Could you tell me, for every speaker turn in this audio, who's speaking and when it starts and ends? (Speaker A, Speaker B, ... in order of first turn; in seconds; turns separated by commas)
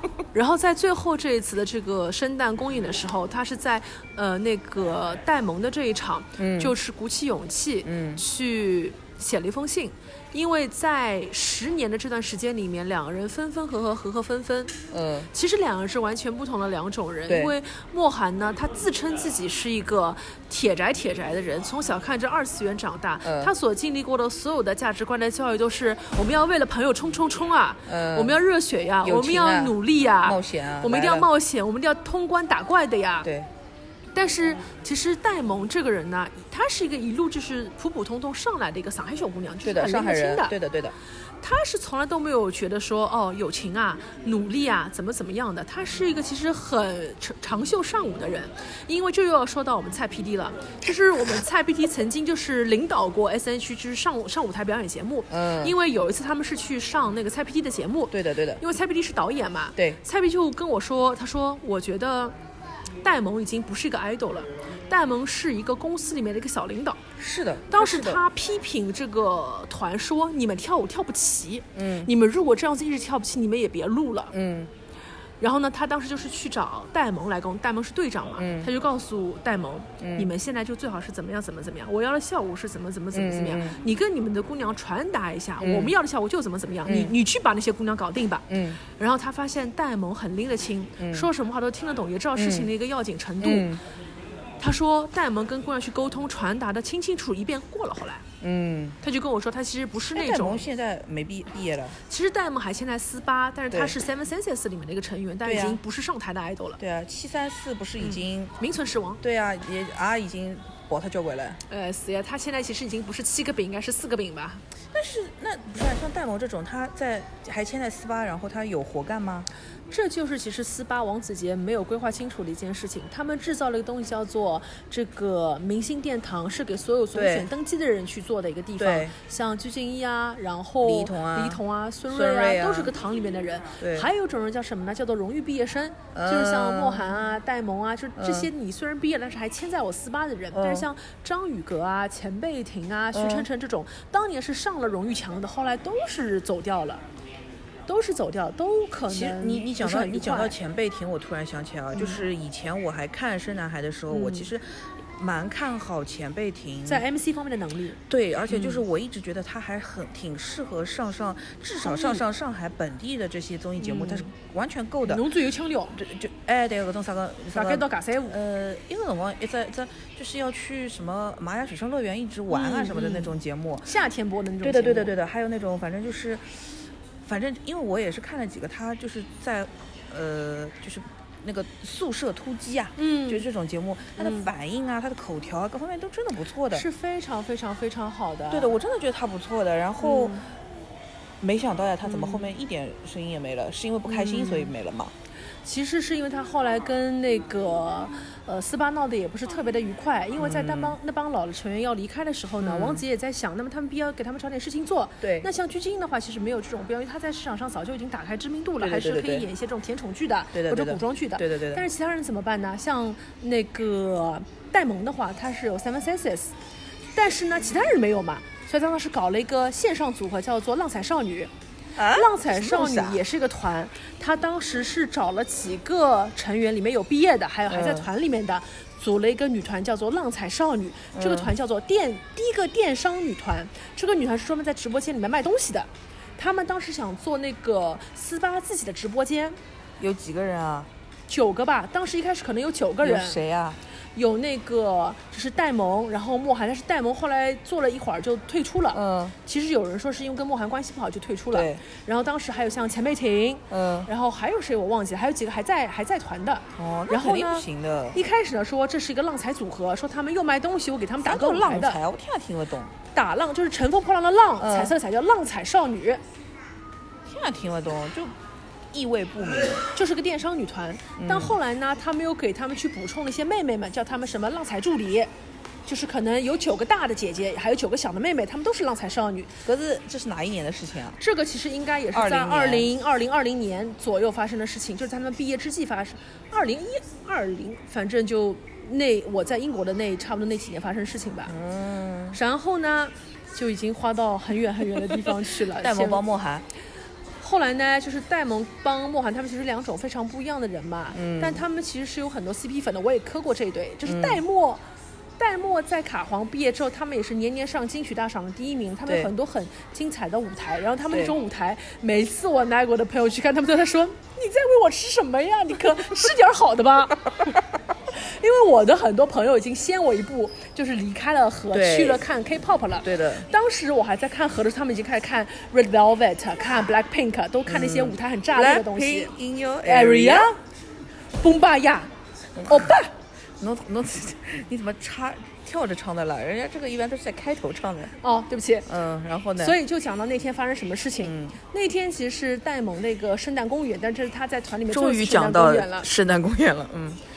Speaker A: 0.3-14.8, Speaker B: 6.4-6.7, Speaker B: 7.8-8.2, Speaker B: 14.9-15.3, Speaker A: 15.3-33.3, Speaker B: 17.3-17.5, Speaker B: 23.2-23.5, Speaker B: 27.9-28.4, Speaker B: 29.0-31.3, Speaker B: 33.2-33.5, Speaker A: 34.1-40.6, Speaker B: 39.6-41.0, Speaker A: 41.4-62.3, Speaker B: 55.3-55.7, Speaker B: 58.1-58.6, Speaker A: 63.0-67.0, Speaker B: 67.2-68.2, Speaker A: 67.7-74.3, Speaker B: 71.7-72.1, Speaker B: 74.3-74.7, Speaker A: 75.4-93.7, Speaker B: 78.4-78.7, Speaker B: 80.0-80.3, Speaker B: 83.1-83.8, Speaker B: 85.6-85.9, Speaker B: 86.8-87.2, Speaker B: 88.5-88.8, Speaker B: 91.0-91.3, Speaker B: 92.3-92.7, Speaker B: 93.4-93.8, Speaker A: 94.6-98.2, Speaker B: 98.4-99.0, Speaker A: 99.0-100.6, Speaker B: 100.1-102.0, Speaker A: 102.1-106.8, Speaker B: 105.4-105.8, Speaker B: 106.8-108.5, Speaker A: 108.0-109.2, Speaker B: 109.2-111.6, Speaker A: 111.7-114.6, Speaker B: 114.9-119.5, Speaker A: 119.9-147.0, Speaker B: 127.1-127.5, Speaker B: 128.8-129.1, Speaker B: 130.8-132.9, Speaker B: 133.8-134.1, Speaker B: 136.1-137.1, Speaker B: 138.2-138.5, Speaker B: 140.5-140.9, Speaker B: 143.1-143.5, Speaker A: 147.9-150.6, Speaker B: 149.1-157.0, Speaker A: 151.9-152.2, Speaker A: 154.1-154.5, Speaker A: 156.8-158.8, Speaker B: 158.1-165.3, Speaker A: 161.8-162.2, Speaker A: 163.8-164.3, Speaker A: 165.1-166.0, Speaker B: 165.9-173.9, Speaker A: 167.5-168.3, Speaker A: 172.5-173.3, Speaker A: 173.8-175.1, Speaker B: 174.6-176.5, Speaker B: 177.2-186.9, Speaker A: 183.0-183.4, Speaker A: 184.2-184.5, Speaker A: 186.7-188.8, Speaker B: 188.5-190.4, Speaker A: 190.0-190.4, Speaker B: 191.4-195.1, Speaker A: 192.0-192.5, Speaker A: 194.1-194.7, Speaker A: 195.6-216.5, Speaker B: 200.4-200.9, Speaker B: 202.6-203.0, Speaker B: 205.2-205.5, Speaker B: 208.8-209.5, Speaker B: 210.5-211.8, Speaker A: 217.1-221.5, Speaker B: 221.9-223.2, Speaker A: 222.1-239.6, Speaker B: 227.7-228.1, Speaker B: 231.1-231.5, Speaker B: 240.0-240.9, Speaker A: 241.3-243.4, Speaker B: 243.0-243.8, Speaker A: 244.1-262.0, Speaker B: 248.9-249.3, Speaker B: 251.5-251.8, Speaker B: 253.7-254.1, Speaker B: 256.8-258.2, Speaker B: 261.2-262.9, Speaker A: 263.1-266.2, Speaker B: 264.6-264.9, Speaker B: 267.2-268.3, Speaker B: 268.9-269.9, Speaker A: 269.9-275.3, Speaker B: 271.2-271.6, Speaker A: 275.9-279.5, Speaker B: 279.6-281.2, Speaker A: 281.2-291.5, Speaker B: 282.1-282.9, Speaker B: 291.5-292.4, Speaker A: 292.3-296.2, Speaker B: 295.7-296.6, Speaker A: 297.4-304.8, Speaker B: 301.1-301.6, Speaker B: 304.0-304.4, Speaker A: 305.4-317.5, Speaker B: 309.1-309.3, Speaker A: 318.1-329.3, Speaker B: 321.7-322.2, Speaker B: 323.0-323.5, Speaker B: 327.6-330.5, Speaker A: 329.8-330.6, Speaker A: 331.4-332.1, Speaker B: 332.6-332.9, Speaker A: 332.6-333.1, Speaker B: 333.6-338.1, Speaker A: 338.2-338.9, Speaker B: 338.9-339.8, Speaker A: 339.6-346.1, Speaker B: 341.2-341.6, Speaker B: 344.9-347.2